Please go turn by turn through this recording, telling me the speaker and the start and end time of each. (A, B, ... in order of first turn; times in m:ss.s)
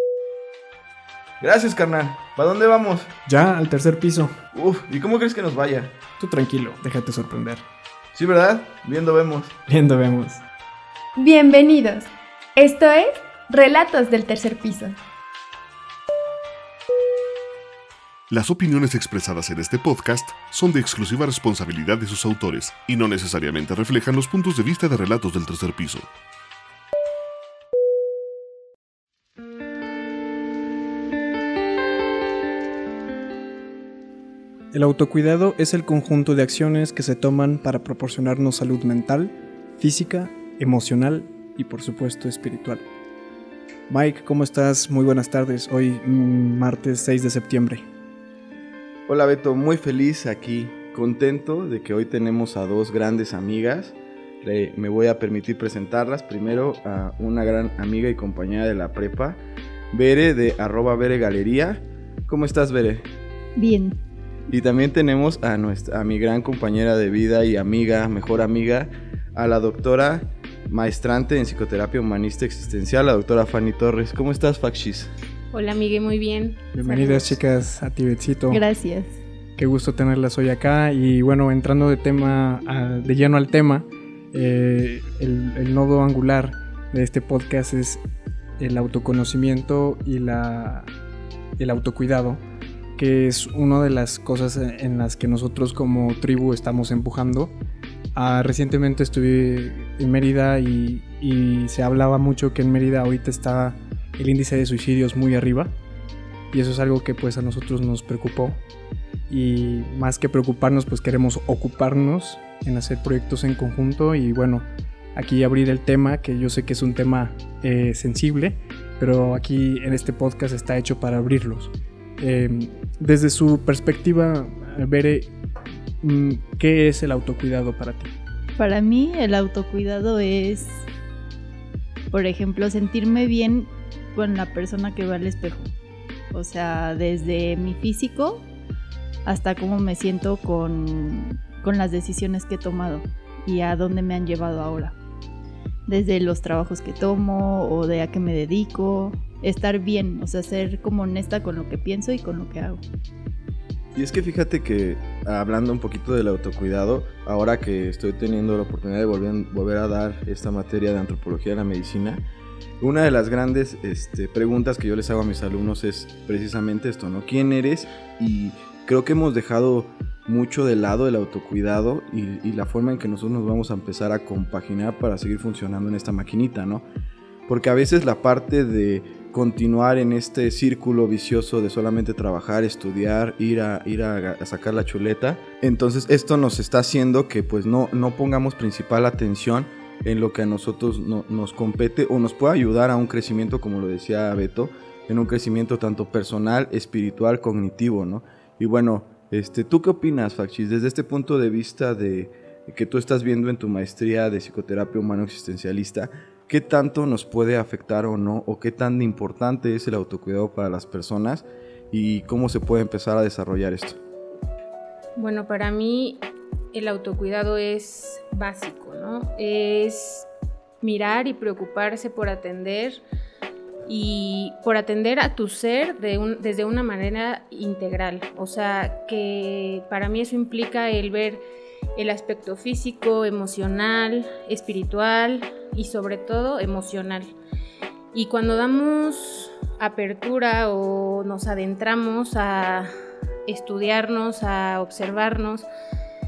0:01.4-0:03.1 A
0:03.3-0:04.4 B
0:04.5-0:06.0 A
0:06.2-0:07.6 B
0:08.1-0:09.5 A
0:09.7-0:10.4 B
0:11.2-0:15.0 C
0:18.3-0:26.1 D
0:34.7-0:42.8 B
0:43.9-0:47.8 B
0:49.1-0:59.4 A
0:59.9-1:03.1 A
1:03.6-1:04.0 E
1:04.5-1:15.1 A
1:15.5-1:17.3 F
1:16.7-1:18.6 B
1:16.9-1:17.2 E
1:18.5-1:19.2 E
1:19.6-1:28.0 B
1:28.6-1:30.9 B
1:31.6-1:32.4 B
1:33.0-1:37.5 B
1:38.1-1:45.8 B
1:46.5-1:48.6 B
1:49.3-2:05.3 B
2:06.0-2:08.1 B
2:08.6-2:10.9 E
2:12.1-2:15.7 E
2:16.3-2:18.5 E
2:19.2-2:25.0 E
2:25.9-2:32.8 E
2:34.0-2:42.2 A
2:42.8-2:56.8 A
2:57.5-3:34.0 A
3:35.2-3:40.3 F
3:40.8-3:43.0 F
3:43.9-3:51.4 F
3:52.0-3:57.3 F
3:58.1-4:02.9 F
4:03.5-4:05.7 F